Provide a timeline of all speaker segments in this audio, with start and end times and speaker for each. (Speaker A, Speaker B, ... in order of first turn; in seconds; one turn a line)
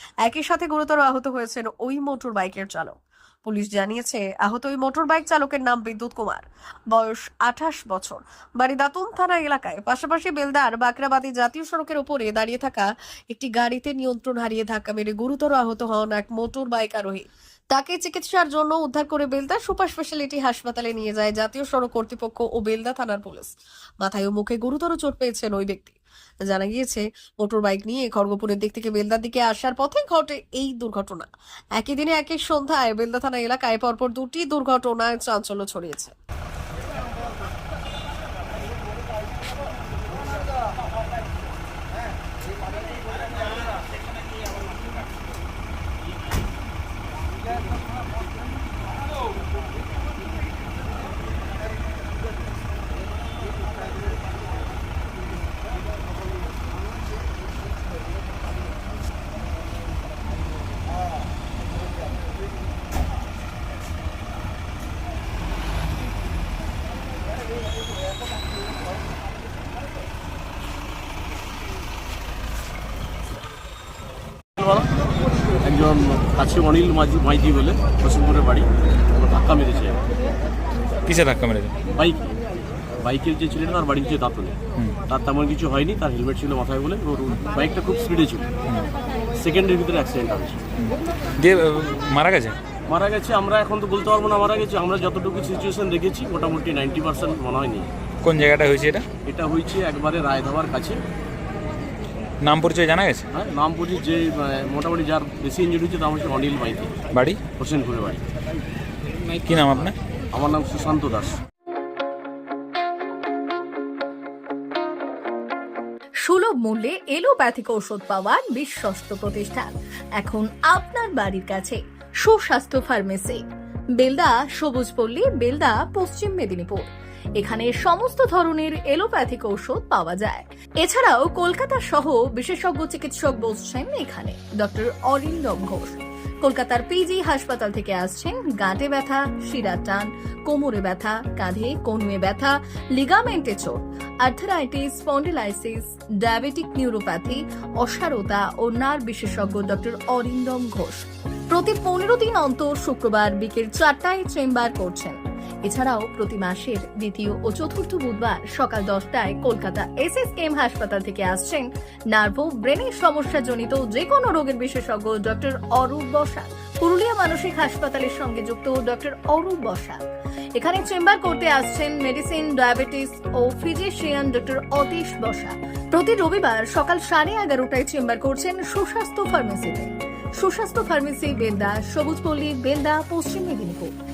Speaker A: 0.2-36.1
Speaker B: 74.6-74.9
Speaker B: 75.5-80.0
Speaker C: 81.1-81.7
Speaker B: 81.9-82.3
Speaker B: 83.0-88.5
Speaker B: 89.4-90.6
Speaker C: 91.4-92.6
Speaker B: 92.9-97.9
Speaker C: 98.2-99.1
Speaker B: 99.2-101.0
Speaker C: 102.4-103.3
Speaker B: 103.3-107.0
Speaker C: 107.1-107.4
Speaker B: 107.5-108.2
Speaker C: 109.3-110.0
Speaker B: 110.3-111.4
Speaker D: 116.3-123.4
Speaker D: 124.0-126.9
Speaker D: 127.4-170.0
Speaker D: 170.6-183.9